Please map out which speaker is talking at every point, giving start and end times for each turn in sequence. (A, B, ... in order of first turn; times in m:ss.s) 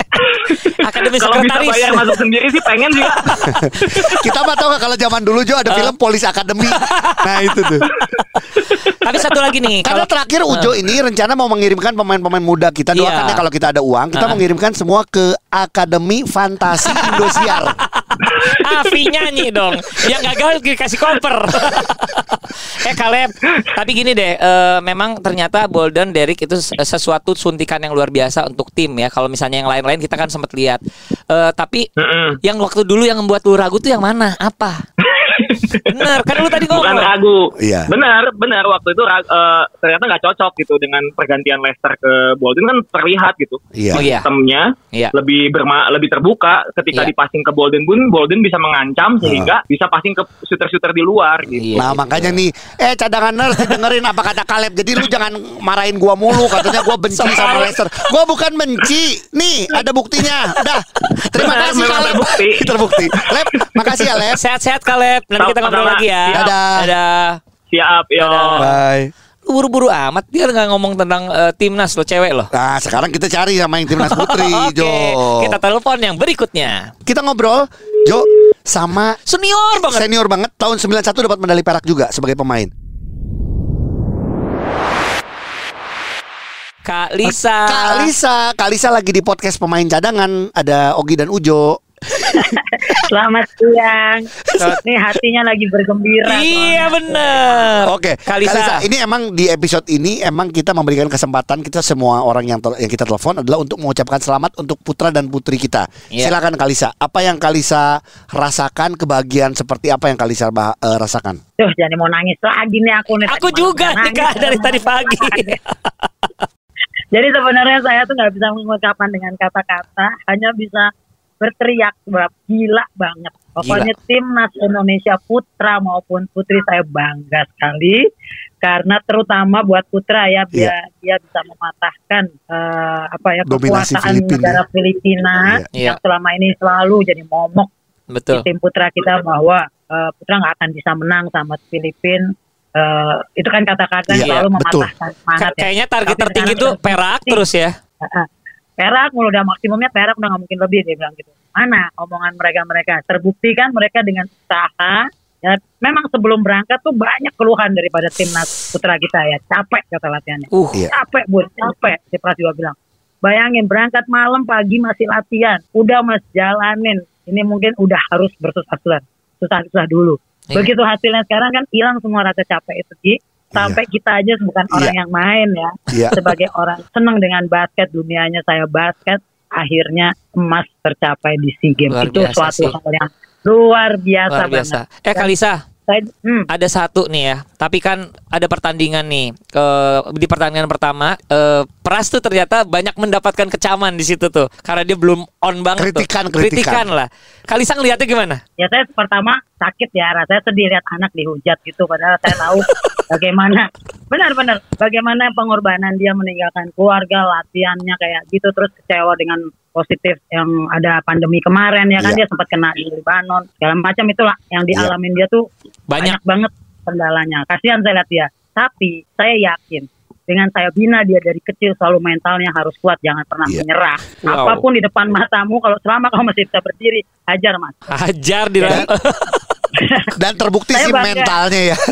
0:00.2-0:03.4 A
0:00.8-0:02.2 B
0:03.3-0:04.2 B
0:03.4-0:07.8 C
0:06.6-0:08.3 B
0:08.6-0:09.0 A
0:09.0-0:10.7 B
0:09.8-0:17.8 C
0:12.9-0:13.4 B
0:14.2-0:14.4 B
0:16.9-0:31.9 B
0:32.0-0:32.4 A
0:32.4-0:34.8 B
0:35.0-0:35.9 A
0:35.9-0:37.1 B
0:36.4-0:51.6 A
0:37.6-0:37.9 C
0:43.8-0:44.1 C
0:43.9-0:44.3 B
0:49.2-0:49.5 C
0:51.6-0:52.4 B
0:51.7-1:04.4 C
0:53.5-0:53.9 B
0:56.5-0:57.8 B
1:01.4-1:02.8 A
1:03.5-1:04.0 A
1:04.3-1:07.4 B
1:05.4-1:06.5 A
1:06.3-1:06.9 C
1:07.7-1:08.7 A
1:08.2-1:08.7 B
1:08.6-1:09.1 C
1:09.4-1:12.5 B
1:12.5-1:15.6 C
1:13.9-1:16.9 B
1:17.1-1:19.2 C
1:19.3-1:20.1 B
1:19.8-1:22.7 C
1:26.8-1:28.1 B
1:27.2-1:32.4 C
1:32.2-1:37.7 D
1:36.2-1:38.8 B
1:37.8-1:51.4 C
1:51.6-1:55.6 D
1:53.2-1:56.4 B
1:57.1-2:00.9 D
2:01.4-2:08.0 D
2:03.6-2:03.9 B
2:08.6-2:17.7 D
2:13.5-2:14.6 C
2:18.1-2:18.4 B
2:18.3-2:27.4 D
2:24.1-2:24.9 C
2:24.2-2:24.5 B
2:25.4-2:27.8 B
2:28.0-2:28.3 D
2:28.8-3:05.3 D
2:40.5-2:40.8 B
2:53.5-2:53.8 C
2:54.7-2:55.0 C
2:55.9-2:56.2 C
3:01.9-3:02.8 B
3:04.3-3:05.6 B
3:05.9-3:06.5 D
3:06.5-3:18.4 B
3:15.8-3:16.9 C
3:18.6-3:35.4 D
3:35.9-3:36.2 B
3:36.0-3:47.8 D
3:44.2-3:44.6 B
3:47.9-3:49.5 B
3:48.6-3:48.9 C
3:49.8-3:50.1 D
3:50.1-3:51.8 C
3:50.7-3:51.4 D